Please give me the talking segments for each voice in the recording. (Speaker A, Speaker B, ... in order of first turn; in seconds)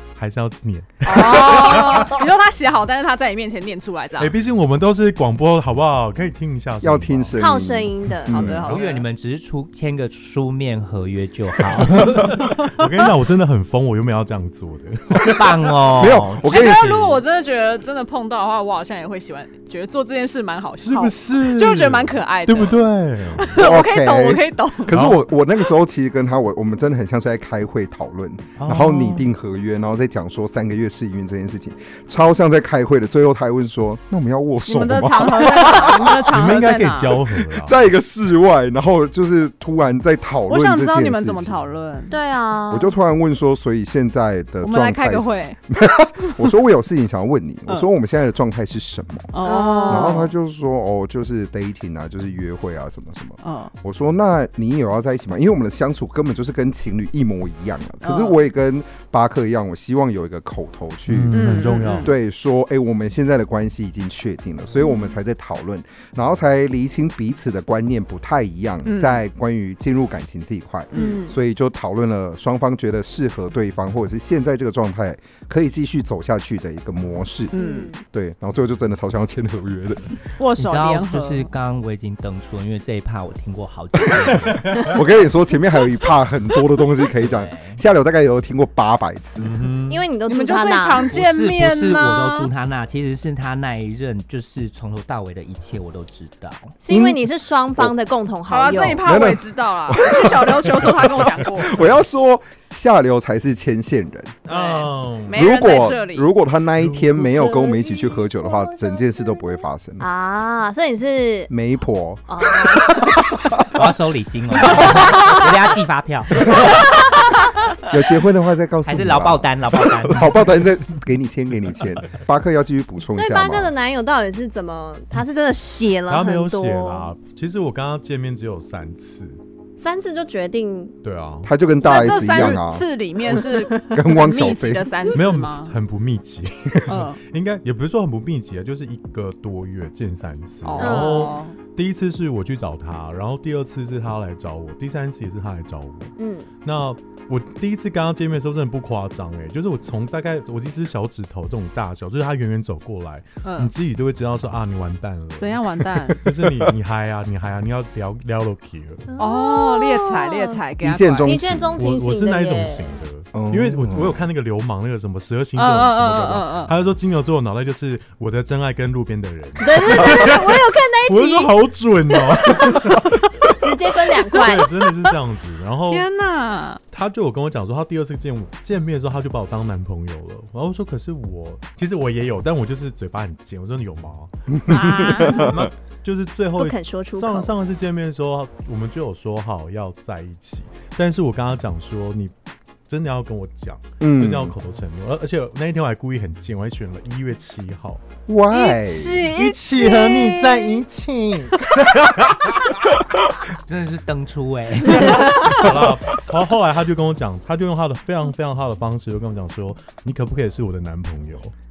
Speaker A: 0.1-2.2, 4.2-7.4, 11.6-15.7, 20.8-23.6, 24.9-25.2, 28.6-29.2, 36.3-37.8, 61.1-62.1, 84.3-85.0, 89.4-90.1, 104.5-105.5, 106.8-107.2, 126.1-129.4, 131.0-131.5, 135.1-146.1, 146.6-159.1, 161.8-173.1, 174.3-176.1, 176.9-192.3, 192.9-198.0, 199.2-202.9, 204.8-211.5
Speaker B: 1.0-4.3, 8.3-9.0, 16.4-25.0, 34.6-37.3, 40.5-42.1, 44.6-45.6, 49.3-50.3, 53.4-53.7, 58.0-58.4, 61.3-62.1, 68.8-69.2, 70.9-71.2, 77.5-77.9, 80.4-81.5, 90.3-92.5, 98.5-101.8, 104.5-106.3, 131.8-135.7, 136.9-137.2, 140.6-141.6, 153.4-153.7, 155.4-156.2, 159.2-161.3, 165.6-166.7, 175.9-176.8, 184.7-185.5, 198.5-200.8
Speaker C: 6.8-8.7, 16.0-16.8, 23.6-36.2, 37.5-41.6, 42.7-49.3, 49.8-77.5, 78.1-80.1, 84.8-89.6, 96.9-97.9, 99.0-104.4, 105.3-110.0, 111.5-113.6, 117.8-123.7, 131.4-132.9, 133.9-134.9, 156.4-156.7, 160.8-161.8, 163.3-164.2, 184.6-185.7, 194.0-194.5, 198.3-199.2
Speaker D: 7.4-8.4, 42.1-42.9, 49.4-50.3, 64.8-65.1, 70.9-71.4, 77.5-78.0, 89.9-91.0, 96.8-99.0, 107.2-111.5, 112.3-113.2, 114.9-115.4, 123.1-127.1, 129.8-131.0, 133.4-133.9, 140.8-141.3, 146.2-146.5, 159.1-160.6, 161.2-163.0, 169.6-171.6, 172.1-174.9, 186.6-187.5
Speaker E: 8.7-12.3, 15.2-17.2, 80.5-85.0, 87.2-87.8, 91.1-96.7, 113.7-116.6, 118.8-120.3, 203.7-205.4